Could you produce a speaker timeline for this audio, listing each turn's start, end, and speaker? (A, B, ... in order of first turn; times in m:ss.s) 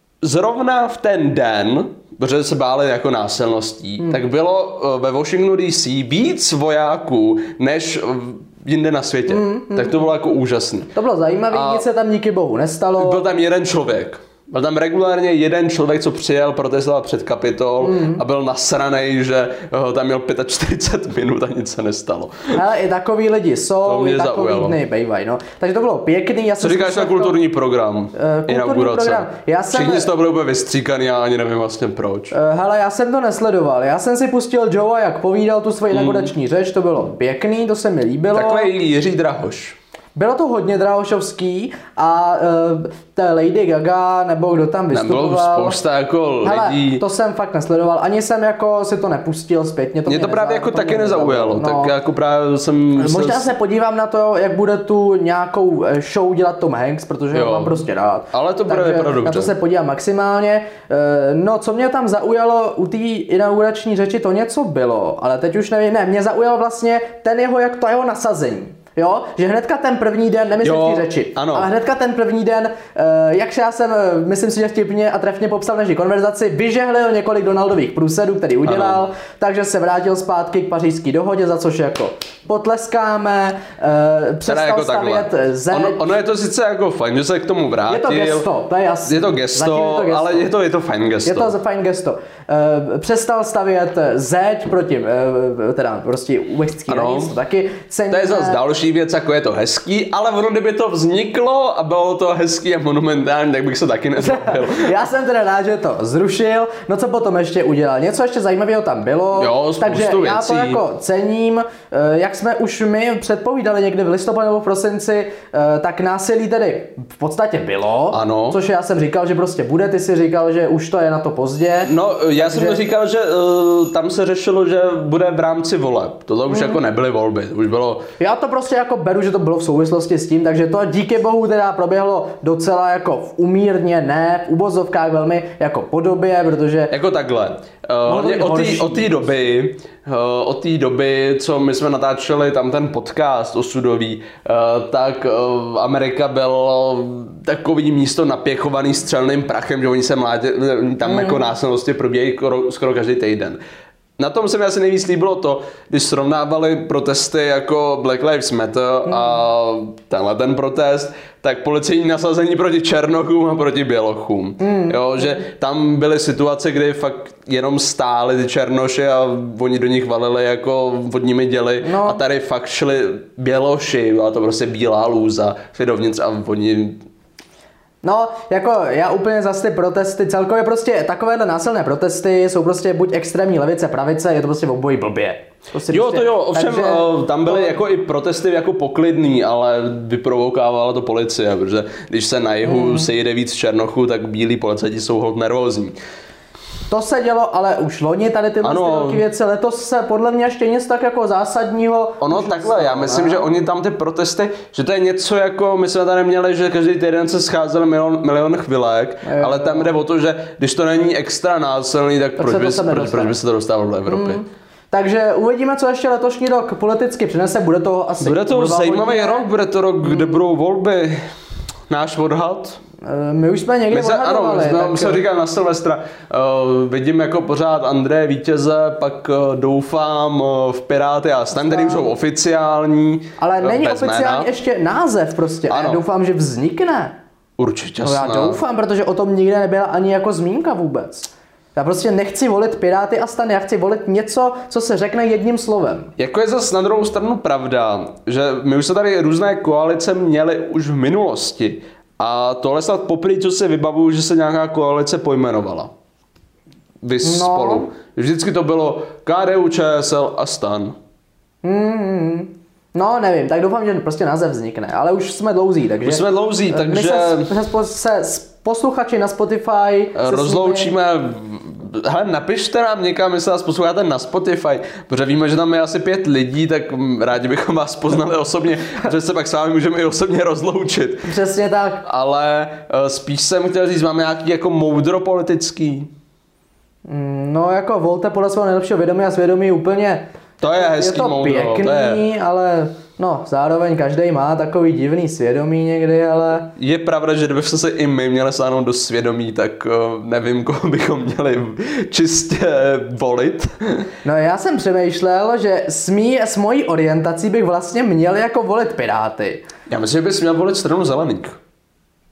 0:00.2-0:10.9 A
0:09.3-0:10.0 B
0:11.0-0:13.2 B
0:11.5-0:11.8 A
0:13.0-0:22.6 A
0:17.8-0:18.2 B
0:22.5-0:27.4 B
0:23.8-0:24.8 A
0:26.6-0:32.4 A
0:28.1-0:30.1 B
0:32.3-0:38.7 B
0:35.9-0:36.3 A
0:38.3-0:39.8 A
0:40.2-0:45.8 B
0:44.9-0:47.0 A
0:46.4-0:51.9 B
0:50.1-0:53.5 A
0:53.0-1:26.1 B
0:57.3-0:57.8 A
0:58.3-0:59.5 A
1:10.6-1:11.7 A
1:18.6-1:19.0 A
1:24.5-1:28.5 A
1:27.9-1:30.5 B
1:29.0-1:31.5 A
1:31.3-1:38.6 B
1:36.9-1:37.3 A
1:38.1-1:44.9 A
1:44.2-2:02.8 B
1:49.4-1:50.8 A
1:58.1-1:58.6 A
2:01.8-2:08.1 A
2:06.5-2:06.8 B
2:08.2-2:16.9 B
2:16.9-2:33.6 A
2:18.1-2:19.2 B
2:31.0-2:31.5 B
2:34.2-2:57.0 A
2:39.0-2:39.4 B
2:44.6-2:45.4 B
2:51.8-2:52.2 B
2:58.0-3:07.8 B
3:05.9-3:16.0 A
3:12.7-3:13.1 B
3:16.9-3:23.5 B
3:18.6-3:19.2 A
3:22.2-3:34.4 A
3:29.2-3:29.9 B
3:32.4-3:33.4 B
3:34.1-3:39.5 B
3:38.2-3:41.2 A
3:40.1-3:40.3 B
3:41.9-3:42.8 A
3:43.0-3:45.2 B
3:43.9-3:54.5 A
3:51.5-3:52.1 B
3:53.4-3:57.2 B
3:55.7-3:56.0 A
3:57.6-3:58.6 A
3:58.0-4:06.1 B
4:06.2-4:15.9 A
4:17.0-4:21.0 A
4:17.2-4:17.9 B
4:21.6-4:30.9 B
4:26.0-4:27.5 A
4:30.2-4:41.4 A
4:41.3-4:42.0 B
4:42.0-4:46.1 A
4:47.1-4:56.7 B
4:50.6-4:52.2 A
4:56.8-5:04.1 A
5:04.2-5:09.6 B
5:09.9-5:11.6 A